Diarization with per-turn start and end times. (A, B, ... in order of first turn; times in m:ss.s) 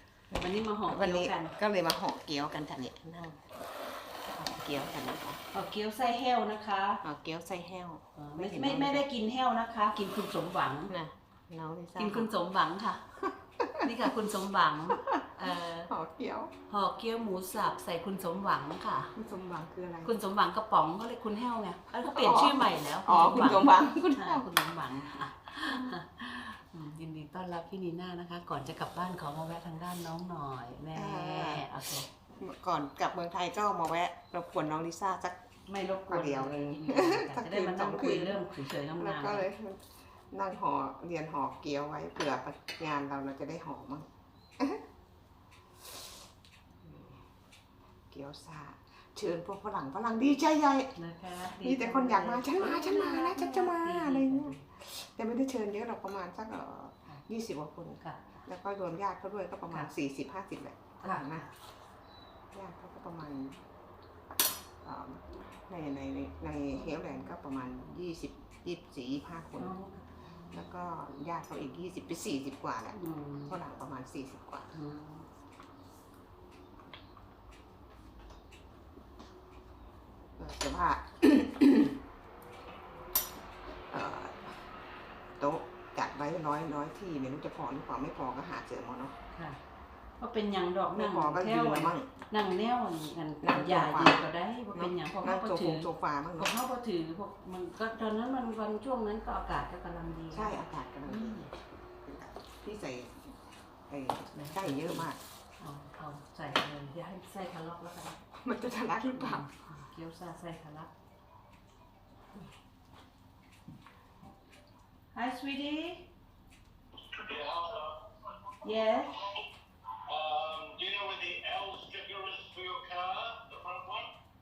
0:00.3-0:03.6 A
0:00.3-0:01.5 B
0:04.3-0:05.4 A
0:05.5-0:07.0 B
0:07.0-0:09.0 A
0:08.2-0:10.9 B
0:10.9-0:12.3 A
0:12.0-0:13.0 B
0:13.2-0:13.9 A
0:13.8-0:15.9 B
0:15.9-0:16.5 A
0:16.7-0:19.1 B
0:19.1-0:20.1 A
0:20.0-0:32.1 B
0:22.0-0:24.6 A
0:30.9-0:35.4 A
0:35.7-0:39.4 B
0:36.1-0:38.4 A
0:38.9-0:44.1 A
0:46.8-0:47.2 A
0:48.1-0:50.9 A
0:51.0-0:54.6 B
0:51.5-1:01.5 A
0:58.0-0:58.4 B
1:01.0-1:01.4 B
1:02.5-1:03.6 A
1:04.8-1:09.7 A
1:09.6-1:10.0 B
1:10.5-1:14.7 A
1:12.9-1:13.5 B
1:14.7-1:15.2 B
1:20.4-1:21.9 A
1:23.9-1:24.5 A
1:25.4-1:29.1 A
1:29.3-1:29.6 B
1:30.2-1:41.5 B
1:30.9-1:32.1 A
1:33.4-1:34.2 A
1:34.7-1:36.5 A
1:40.3-1:41.5 A
1:42.0-1:43.3 A
1:43.9-1:45.2 A
1:44.3-1:45.0 B
1:45.6-1:48.2 B
1:48.4-1:49.5 A
1:49.2-1:50.9 B
1:55.1-1:56.1 B
1:57.1-1:58.0 C
1:58.6-1:59.3 B
2:00.1-2:04.1 C